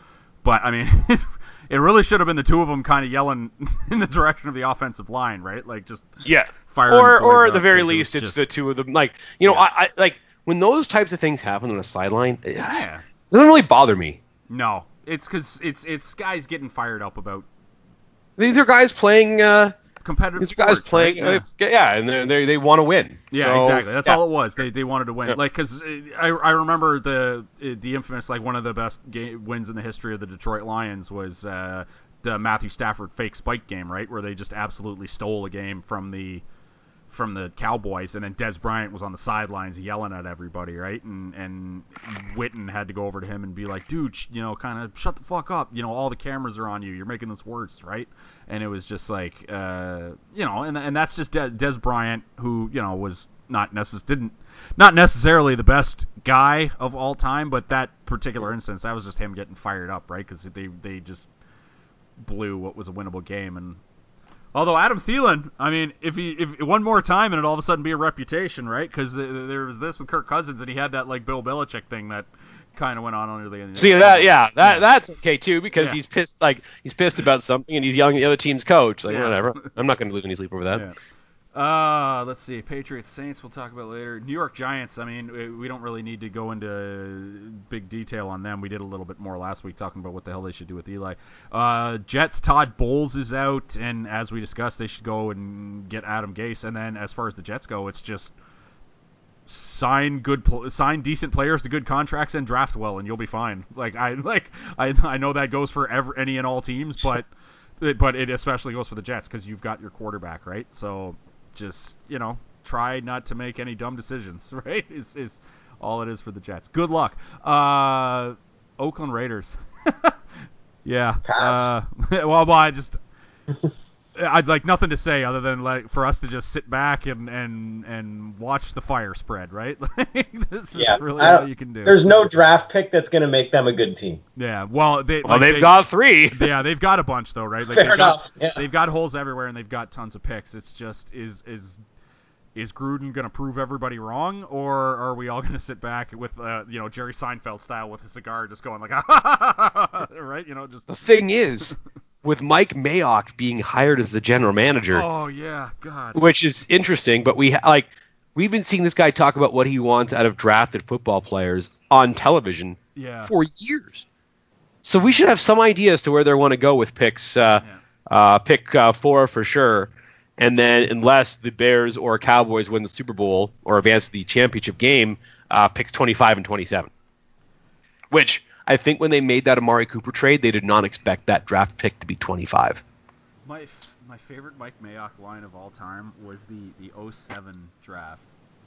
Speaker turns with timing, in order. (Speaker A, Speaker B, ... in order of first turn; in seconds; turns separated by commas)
Speaker A: 0.4-8.4, Speaker B: 6.2-14.2, Speaker A: 12.6-13.0, Speaker A: 14.5-17.5, Speaker B: 18.4-19.8, Speaker A: 20.0-21.5, Speaker B: 20.4-24.2, Speaker A: 23.3-36.4, Speaker A: 37.1-61.3, Speaker A: 62.2-63.8, Speaker A: 64.5-74.9, Speaker B: 73.8-80.9, Speaker A: 79.1-79.7, Speaker A: 81.5-98.3, Speaker A: 99.5-107.3, Speaker A: 107.8-123.0, Speaker C: 121.3-121.7, Speaker A: 124.2-132.1, Speaker C: 130.8-134.2, Speaker A: 134.4-141.8, Speaker B: 135.2-136.5, Speaker C: 137.7-138.6, Speaker A: 142.6-151.7, Speaker B: 150.9-155.1, Speaker A: 154.9-156.3, Speaker B: 156.2-164.1, Speaker A: 162.9-163.3, Speaker B: 164.8-176.9, Speaker B: 178.1-182.8, Speaker A: 183.5-188.3